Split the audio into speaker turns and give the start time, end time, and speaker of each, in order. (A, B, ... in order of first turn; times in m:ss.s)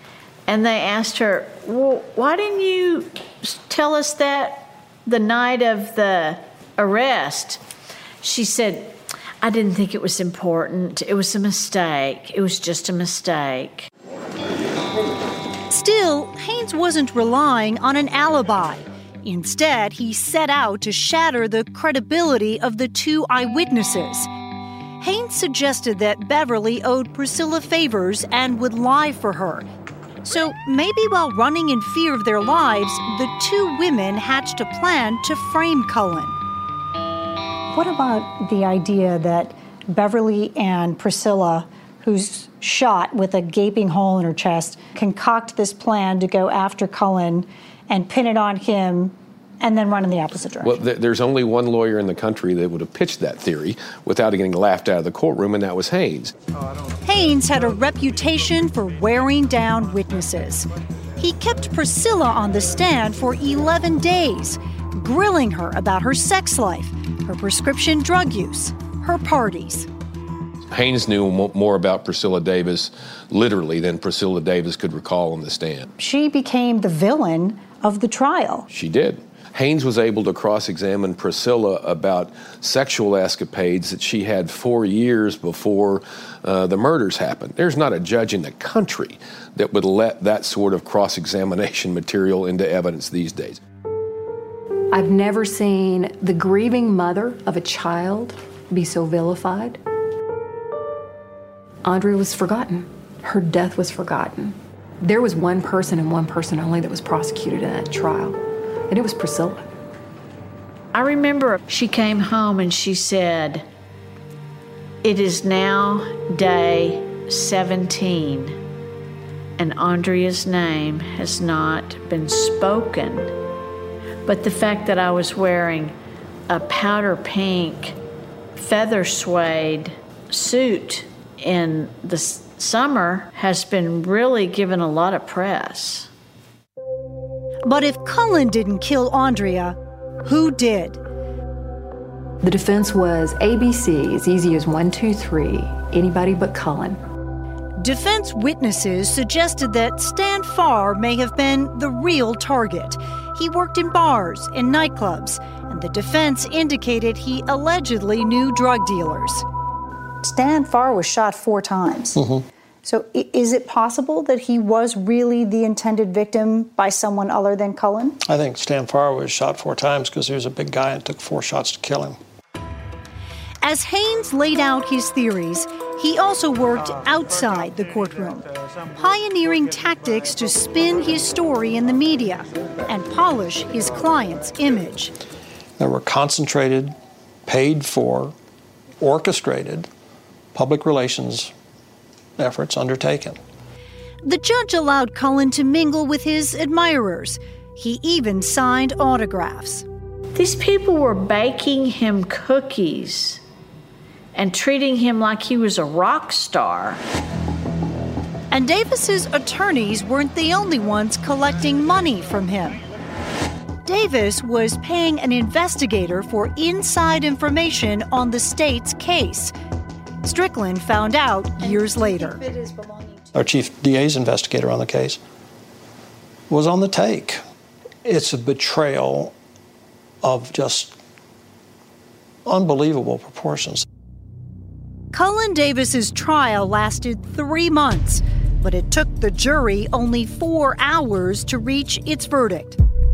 0:00.4-0:07.6 A
0:08.2-0:13.9 A
0:15.7-0:24.3 B
0:25.0-0:29.7 B
0:30.2-0:36.4 B
0:37.7-0:50.8 C
0:50.6-0:56.3 D
0:57.0-1:00.7 B
1:01.2-1:09.9 B
1:10.7-1:15.9 D
1:16.0-1:18.6 C
1:18.7-1:33.6 D
1:34.9-1:39.8 E
1:41.8-1:49.6 E
1:50.9-1:53.7 A
1:55.0-1:58.6 A
1:59.6-2:03.3 A
2:04.2-2:05.9 A
2:06.5-2:08.0 A
2:08.6-2:16.1 A
2:17.6-2:21.0 B
2:22.4-2:27.0 E
2:27.8-2:39.4 B
2:40.2-2:42.2 C
2:42.1-2:42.4 F
2:42.8-2:48.2 C
2:48.2-2:52.2 F
2:53.6-3:05.1 B
3:05.8-3:06.9 F
3:07.4-3:08.3 F
3:09.0-3:09.9 F
3:10.5-3:11.5 F
3:12.4-3:13.4 F
3:14.2-3:19.8 B
3:20.3-3:23.4 A
3:24.3-3:27.0 A
3:28.5-3:32.8 B
3:33.8-3:39.5 B
3:40.2-3:42.4 B
3:41.6-3:43.4 C
3:43.3-3:45.2 F
3:46.5-3:47.4 F
3:48.0-3:49.3 F
3:50.2-3:51.0 F
3:52.4-3:53.8 F
3:55.1-4:02.8 B